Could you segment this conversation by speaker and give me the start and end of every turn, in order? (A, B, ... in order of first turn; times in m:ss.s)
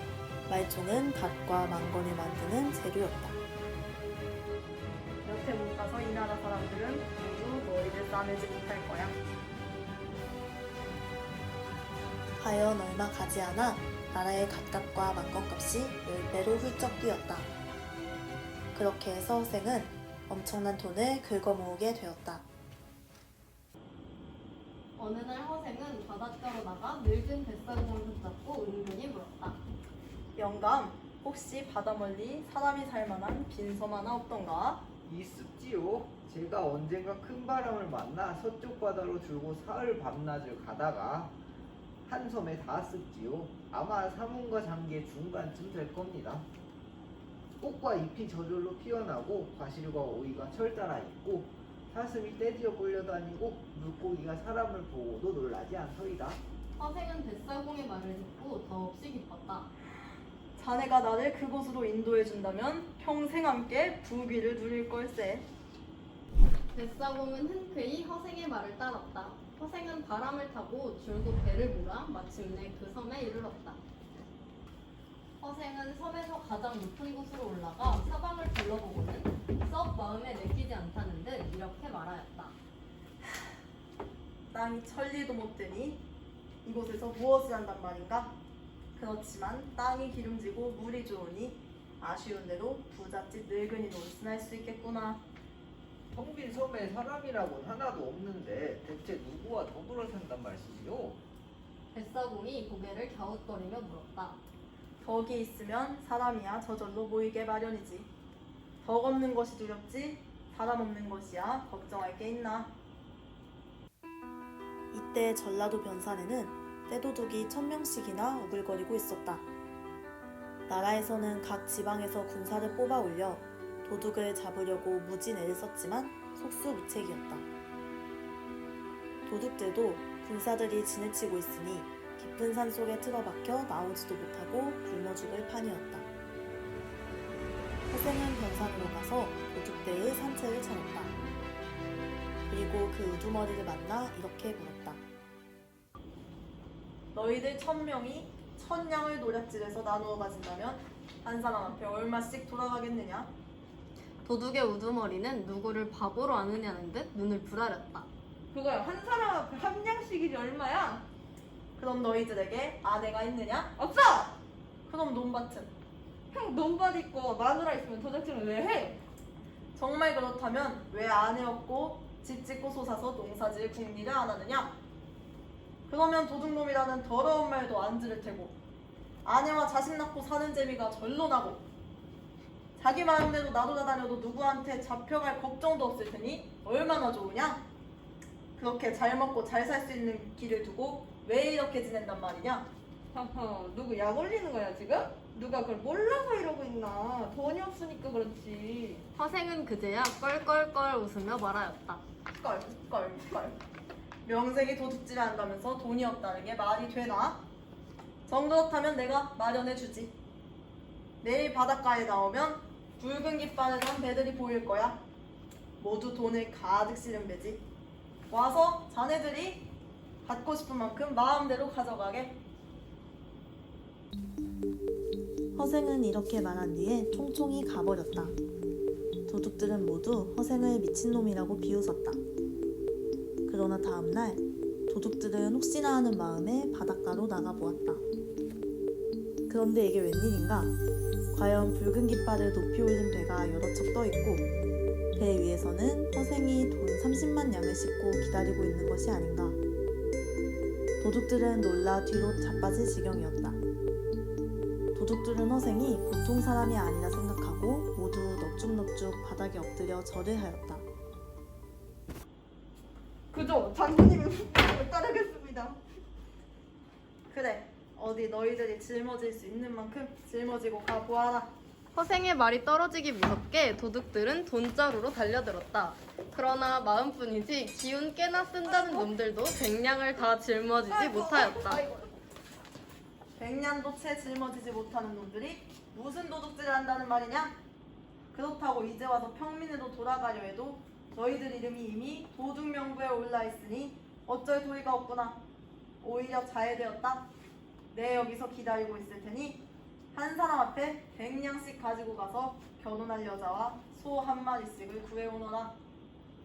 0:00.5-0:03.4 A
0:05.2-0:09.2 B
0:12.4-0:17.5 A
0:18.7-0:22.4 A
0:25.0-0:29.6 C
0:30.4-0:34.8 B
0:35.0-0:41.4 D
0:42.0-0:46.4 D
0:47.6-0:56.4 D
0:56.8-0:59.7 C
1:00.6-1:05.5 B
1:06.7-1:13.8 C
1:15.4-1:22.5 C
1:24.5-1:26.0 B
1:26.6-1:28.4 B
1:29.0-1:35.2 B
1:36.1-1:41.2 D
1:41.9-1:44.4 C
1:45.0-1:48.1 B
1:48.8-1:52.7 B
1:54.9-1:59.4 A
2:00.7-2:07.4 A
2:09.2-2:16.1 A
2:17.9-2:21.2 A
2:22.5-2:25.0 A
2:27.1-2:33.3 B
2:34.2-2:38.1 C
2:38.5-2:41.0 E
2:41.8-2:43.7 B
2:43.8-2:44.4 E
2:44.8-2:45.7 B
2:46.3-2:49.0 E
2:49.7-2:54.8 B
2:55.9-2:58.6 B
2:59.2-3:01.6 B
3:02.8-3:07.6 B
3:08.6-3:12.7 B
3:13.1-3:19.0 E
3:19.2-3:22.0 C
3:22.3-3:23.6 B
3:24.2-3:27.4 B
3:28.3-3:30.2 B
3:31.2-3:35.0 B
3:35.8-3:37.6 B
3:38.3-3:39.7 B
3:40.2-3:42.4 B
3:45.5-3:48.4 A
3:49.3-3:52.2 A
3:53.4-3:58.0 A
3:59.5-4:00.7 A
4:01.3-4:04.5 A
4:05.2-4:09.6 A
4:11.0-4:13.6 A
4:14.9-4:20.8 A
4:23.3-4:25.8 E
4:27.3-4:31.5 B
4:31.9-4:41.8 C
4:40.9-4:42.1 E
4:43.4-4:47.6 B
4:48.3-4:55.4 B
4:56.0-4:57.3 B
4:57.9-5:05.8 B